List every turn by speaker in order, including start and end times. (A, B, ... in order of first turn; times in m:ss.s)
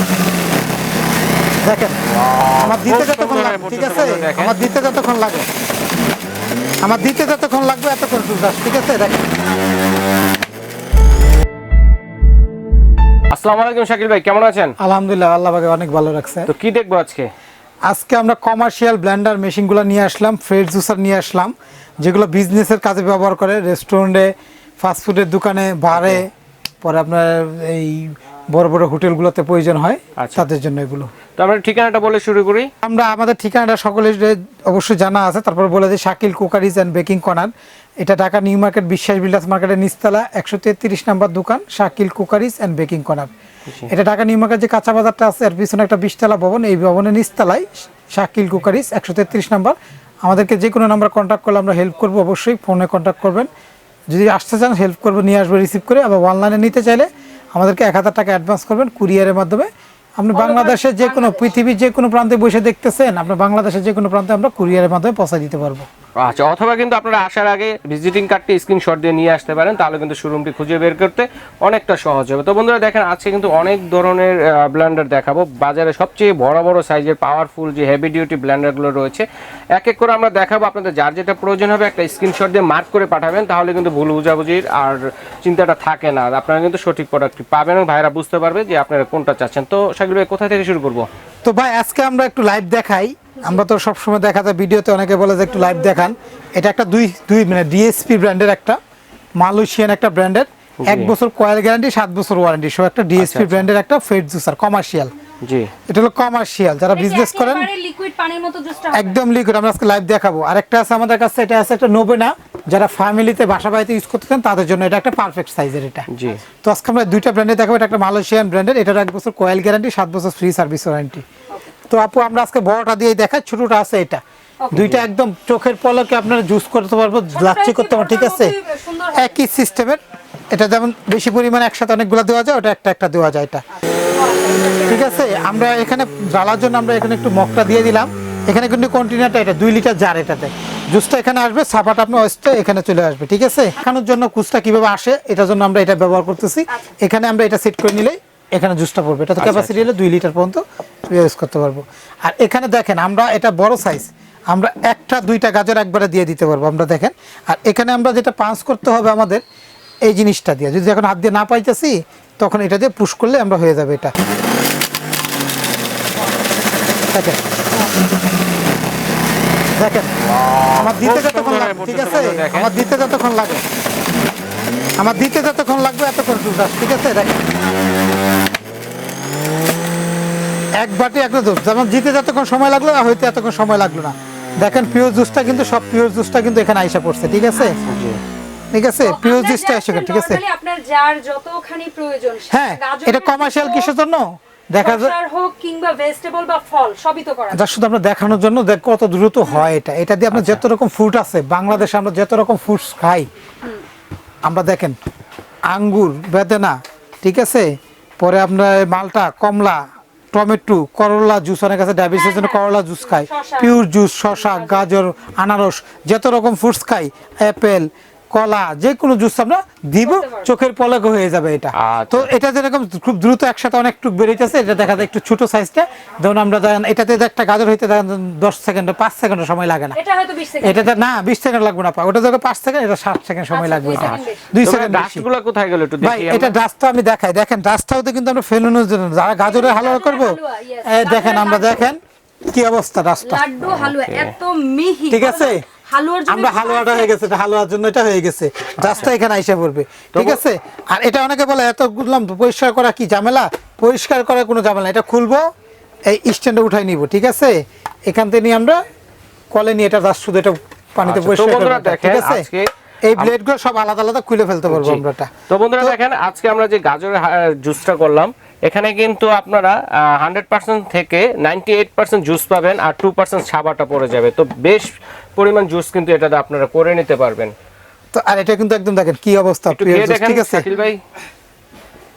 0:01.6-0:02.0 A
0:02.3-0:04.6 B
0:02.6-0:05.5 A
0:06.8-0:09.3 A
0:13.3-0:14.8 B
0:14.8-0:16.5 A
0:16.5-0:17.3 B
0:17.9-0:26.3 A
0:25.9-0:26.2 B
0:26.8-0:31.2 A
0:30.2-0:30.5 B
0:31.4-0:32.7 B
0:32.8-0:43.3 A
0:43.9-0:53.5 A
0:54.1-1:05.9 A
1:00.3-1:01.6 C
1:06.2-1:31.1 B
1:31.4-1:38.8 A
1:39.4-1:45.1 A
1:40.8-1:41.1 B
1:43.2-1:43.7 B
1:45.4-1:45.7 B
1:45.8-1:47.7 A
1:46.9-1:49.2 C
1:48.9-2:01.3 A
1:56.1-1:56.4 B
2:01.9-2:04.2 A
2:04.7-2:05.0 B
2:04.7-2:08.5 A
2:07.3-2:09.4 C
2:09.2-2:10.0 A
2:10.5-2:13.6 A
2:14.1-2:15.2 C
2:14.9-2:39.4 A
2:26.7-2:27.0 C
2:29.4-2:29.8 B
2:40.1-2:44.1 A
2:47.1-2:47.4 A
2:49.8-2:50.1 A
2:50.5-2:52.7 B
2:50.7-2:53.6 A
2:55.0-2:57.4 A
3:00.8-3:07.8 A
3:07.8-3:08.2 B
3:08.7-3:10.4 A
3:09.0-3:13.9 C
3:12.5-3:15.2 A
3:14.8-3:17.7 C
3:17.5-3:23.3 A
3:20.3-3:20.6 B
3:24.4-3:25.0 A
3:25.7-3:50.0 A
3:32.2-3:34.9 C
3:40.0-3:40.5 C
3:41.8-3:42.3 B
3:50.0-3:50.9 C
3:50.6-3:55.3 A
3:53.5-3:54.6 C
3:53.9-3:56.6 B
3:56.0-4:03.4 A
3:59.4-4:01.8 C
4:03.2-4:07.1 C
4:03.7-4:04.3 B
4:05.1-4:05.7 A
4:06.3-4:15.5 A
4:08.8-4:09.1 B
4:10.1-4:10.4 B
4:16.1-4:18.8 A
4:19.5-4:22.5 A
4:21.0-4:23.3 B
4:23.0-4:26.0 A
4:24.7-4:37.5 B
4:38.1-4:40.7 A
4:39.7-4:41.0 B